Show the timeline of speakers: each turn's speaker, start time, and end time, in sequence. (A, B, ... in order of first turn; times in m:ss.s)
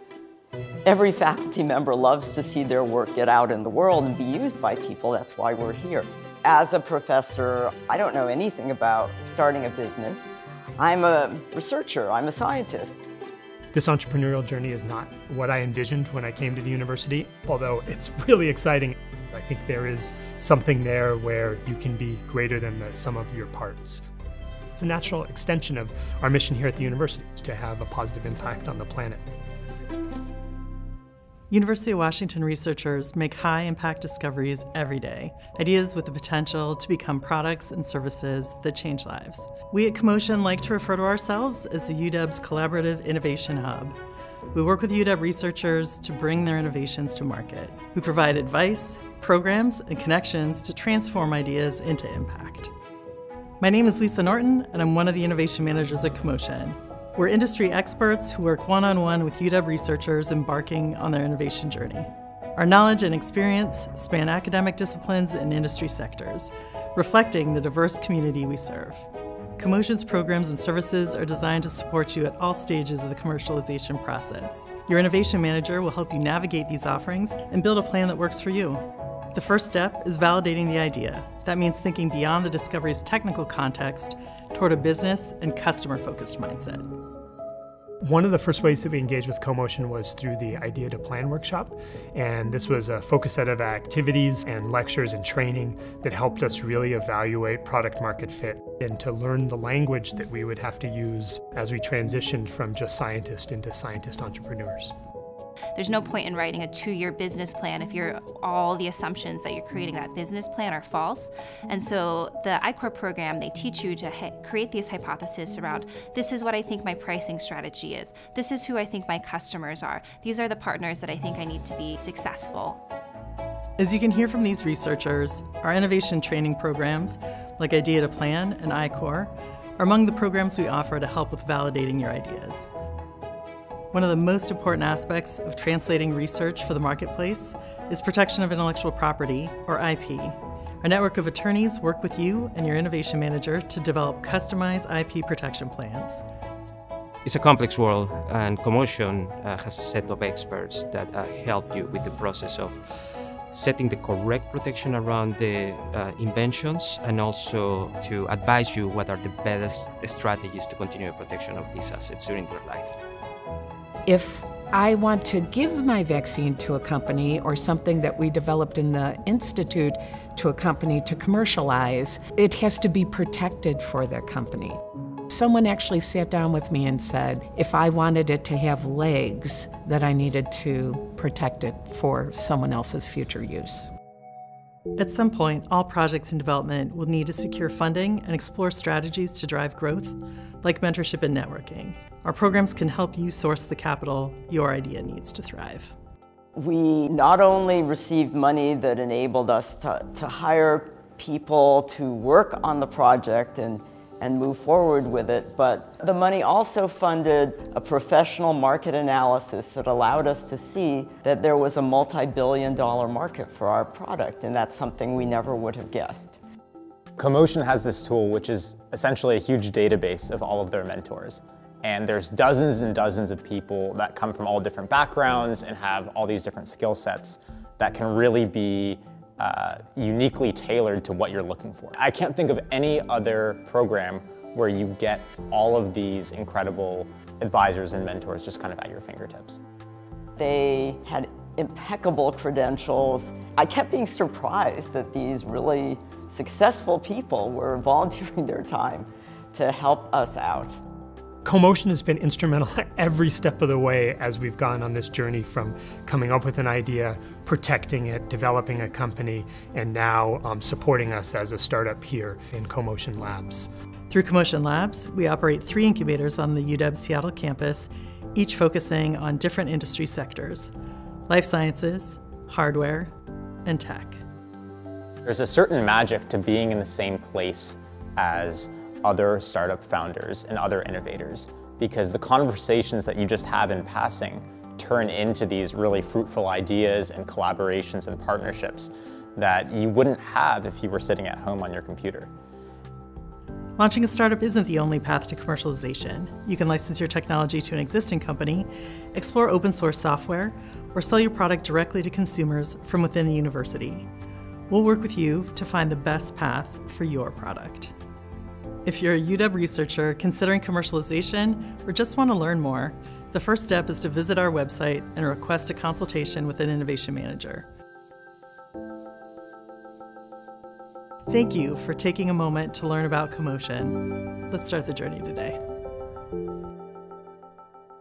0:00.8-0:13.0 A
0:13.7-0:24.0 B
0:24.7-0:29.2 B
0:31.5-0:44.0 C
0:44.5-0:52.7 C
0:53.6-1:18.8 C
1:19.3-1:26.9 C
1:28.0-1:44.9 B
1:45.8-2:02.8 D
2:03.8-2:12.7 C
2:13.9-2:26.2 C
2:27.2-2:32.8 E
2:33.5-2:43.0 E
2:44.1-2:54.8 F
2:55.3-3:03.9 F
3:05.0-3:15.9 C
3:16.6-3:36.4 A
3:37.2-3:59.6 G
4:00.4-4:10.8 A
4:11.4-4:23.7 B
4:24.1-4:30.7 C
4:31.3-4:33.1 C
4:33.6-4:34.2 C
4:35.3-4:52.3 G
4:53.8-5:04.1 C
5:04.7-5:07.9 C
5:08.8-5:17.7 C
5:21.3-5:25.6 C